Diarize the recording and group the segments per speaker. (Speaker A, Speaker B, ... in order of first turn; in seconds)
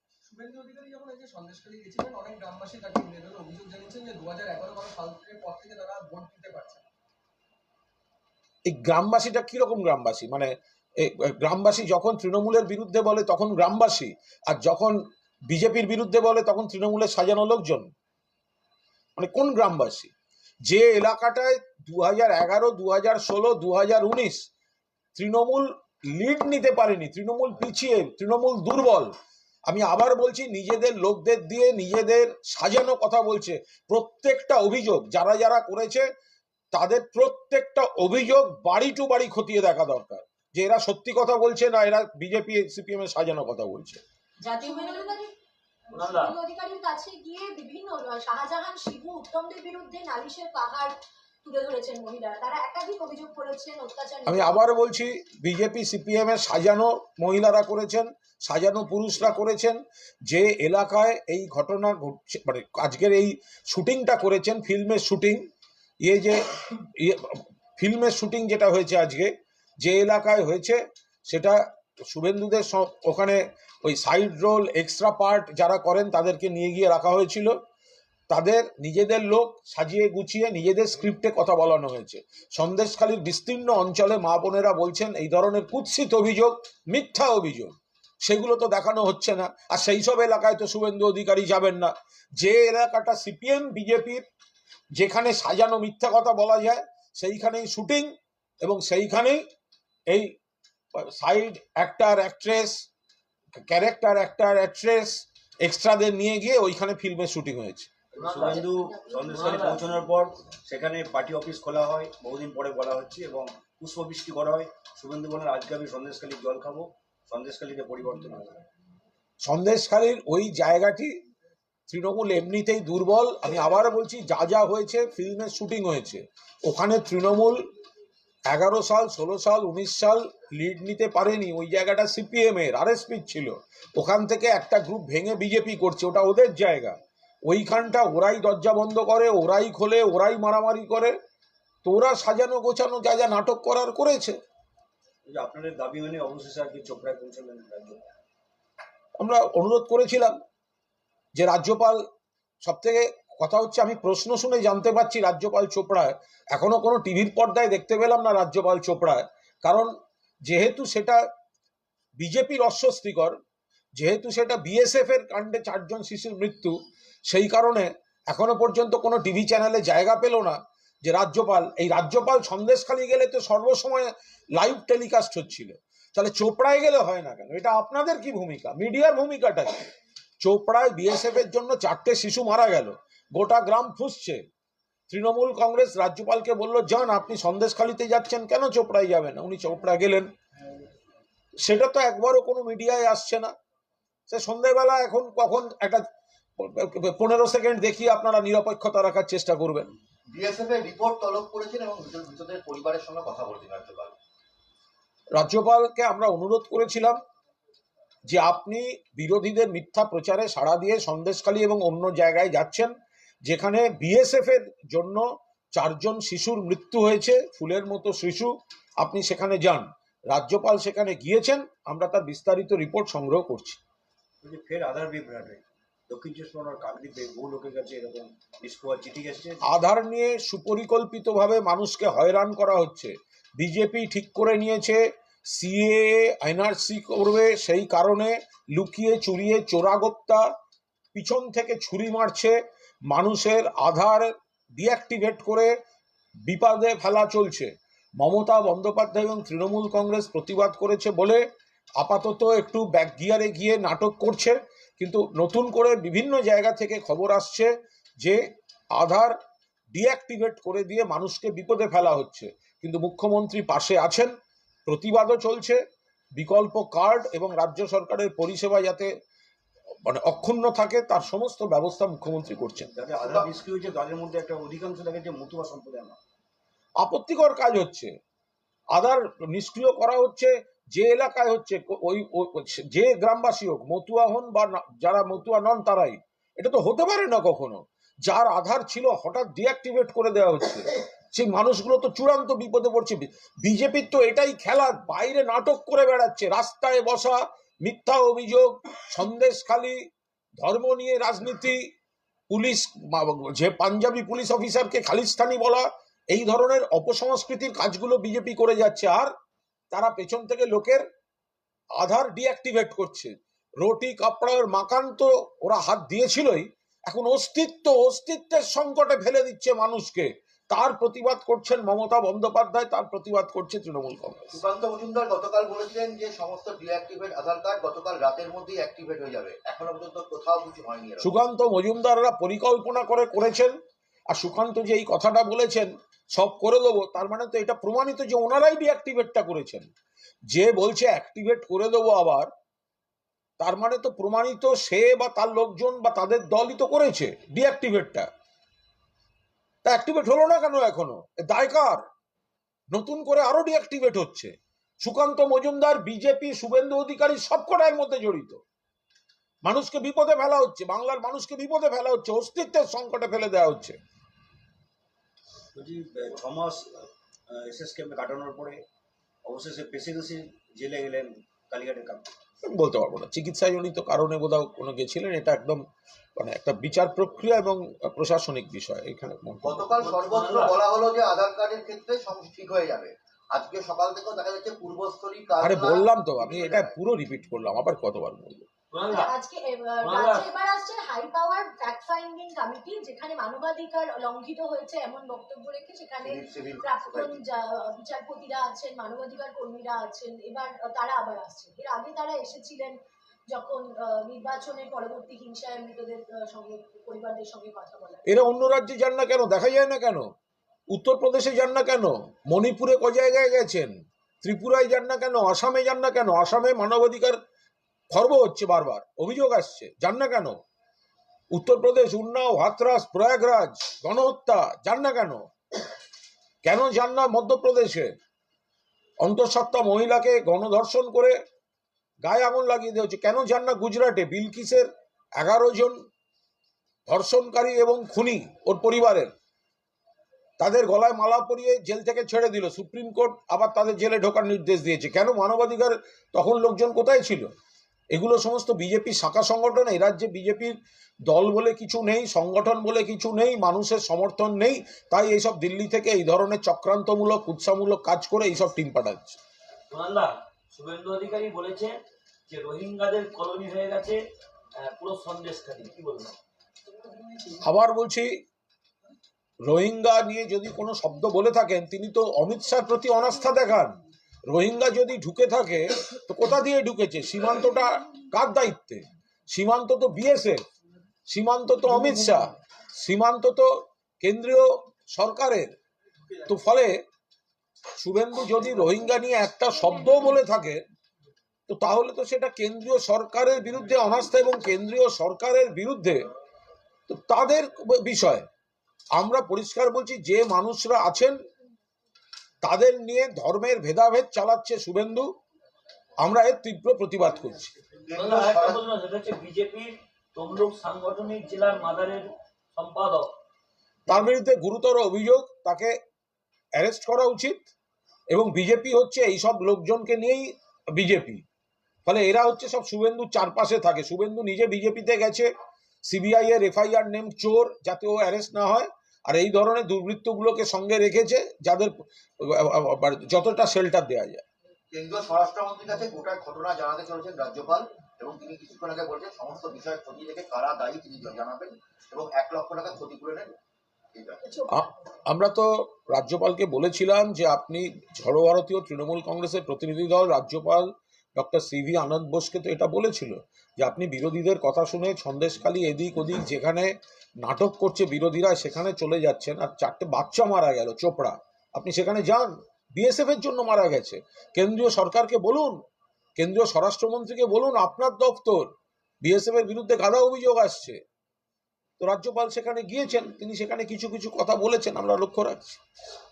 Speaker A: 0.3-6.8
Speaker B: 8.7-17.9, 19.2-20.1, 20.7-24.4, 25.2-29.1, 29.7-36.1, 36.7-44.0, 54.3-65.4, 66.0-77.5, 78.3-94.2, 95.0-99.4, 101.0-102.8, 103.7-107.9, 119.4-121.1, 121.9-127.6, 128.5-141.2, 141.8-144.4, 149.2-150.4, 151.3-152.0, 152.6-159.9, 160.5-161.2, 162.2-163.4, 164.0-166.8, 167.3-184.4, 185.1-190.3, 191.6-193.5, 194.3-196.0, 196.6-199.9, 205.3-207.2, 208.3-212.9, 213.4-223.8, 229.7-240.4, 241.1-242.6, 243.1-245.7, 246.5-251.4, 252.0-258.4, 258.9-259.4, 259.9-264.3, 264.9-265.8, 266.4-269.1, 270.1-272.9, 277.0-278.1, 278.9-300.0, 300.6-301.9, 302.5-309.3, 309.9-311.1, 312.0-324.6, 331.2-333.8, 334.3-339.9, 340.5-342.5, 343.6-348.3, 349.9-352.0, 352.9-358.6, 359.6-364.0, 372.7-375.8, 376.4-380.0, 385.6-388.7, 408.3-410.3, 410.9-417.4, 418.1-420.6, 421.5-425.4, 426.6-428.1, 429.2-431.4, 432.2-434.9, 435.4-436.0, 437.1-439.3, 440.6-447.5, 448.1-450.8, 451.3-459.4, 467.6-468.3, 469.7-474.0, 474.5-480.6, 481.3-485.7, 486.4-487.0, 488.0-490.8, 491.7-496.3, 497.1-498.5, 499.1-501.4, 502.6-505.3, 506.2-507.7, 514.1-516.0, 516.8-517.7, 518.3-521.4, 522.1-525.5, 526.0-534.4, 544.7-565.8, 566.4-571.0, 572.0-575.8
Speaker C: 44.4-45.3, 45.9-54.6, 108.7-109.2, 389.1-403.0, 403.5-408.3
Speaker D: 45.9-46.4, 108.2-108.7, 109.3-109.8, 380.0-380.8, 388.9-389.3, 390.0-390.5, 459.9-464.2, 464.8-466.3, 508.1-513.3
Speaker E: 108.1-118.6, 145.3-148.2, 224.4-229.6, 272.9-276.2, 365.8-368.8, 369.4-372.3
Speaker F: 200.3-204.2, 324.5-331.3, 379.6-386.9, 396.2-397.4, 508.1-508.8, 534.9-543.5, 544.1-544.5